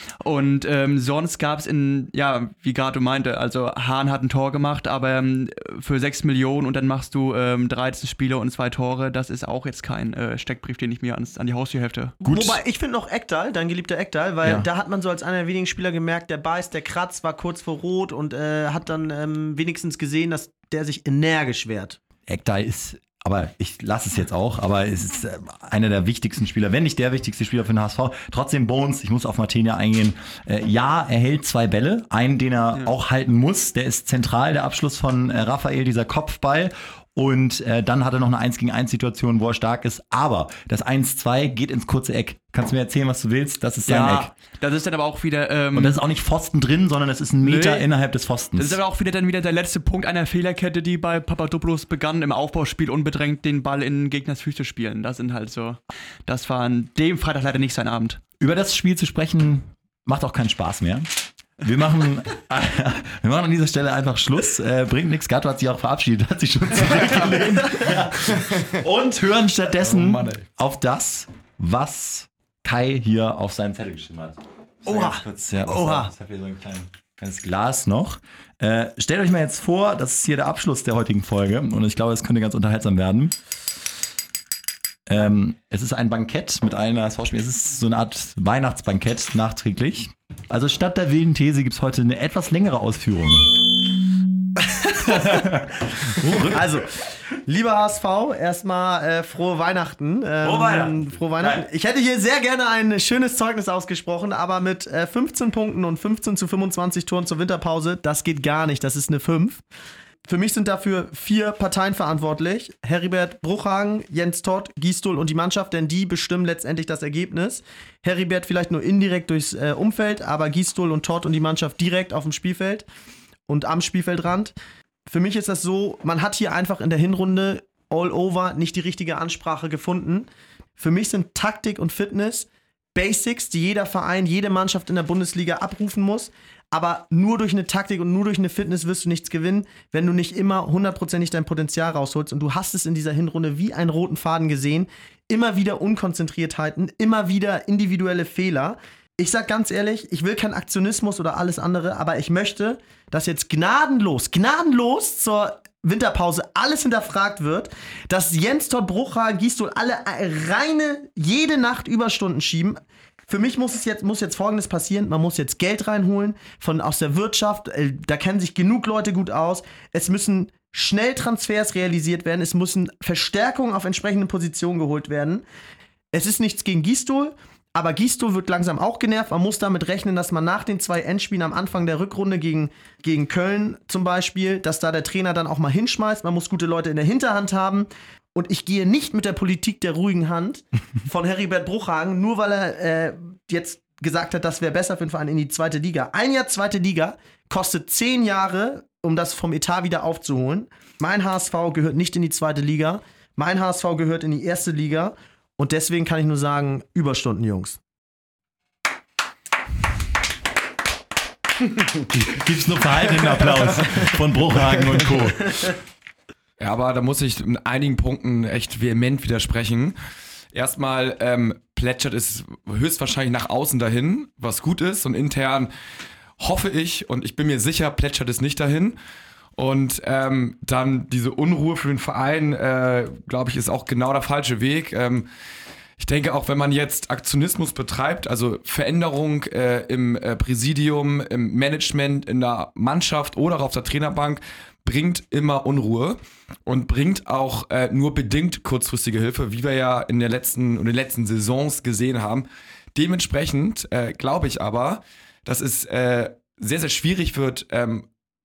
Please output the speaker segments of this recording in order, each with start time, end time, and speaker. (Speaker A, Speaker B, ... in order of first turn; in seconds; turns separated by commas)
Speaker A: 0.2-12.2, Speaker B: 12.2-12.6, Speaker C: 12.2-22.0, Speaker B: 22.3-44.3, Speaker A: 43.9-46.0, Speaker B: 45.7-48.8, Speaker A: 47.4-47.9, Speaker A: 48.5-58.2, Speaker B: 58.4-61.1, Speaker B: 61.6-83.3, Speaker D: 68.3-68.8, Speaker D: 69.8-70.5, Speaker C: 74.9-76.1, Speaker B: 85.1-93.7, Speaker C: 94.7-95.5, Speaker B: 95.1-96.6, Speaker C: 96.4-109.6, Speaker B: 100.4-101.7, Speaker C: 110.3-122.9, Speaker C: 123.5-124.5, Speaker C: 125.1-130.3, Speaker C: 130.8-175.4, Speaker C: 176.1-207.8, Speaker B: 212.1-215.7, Speaker D: 216.6-220.0, Speaker D: 220.5-225.7, Speaker D: 226.4-229.0, Speaker D: 229.6-235.3, Speaker D: 236.0-258.1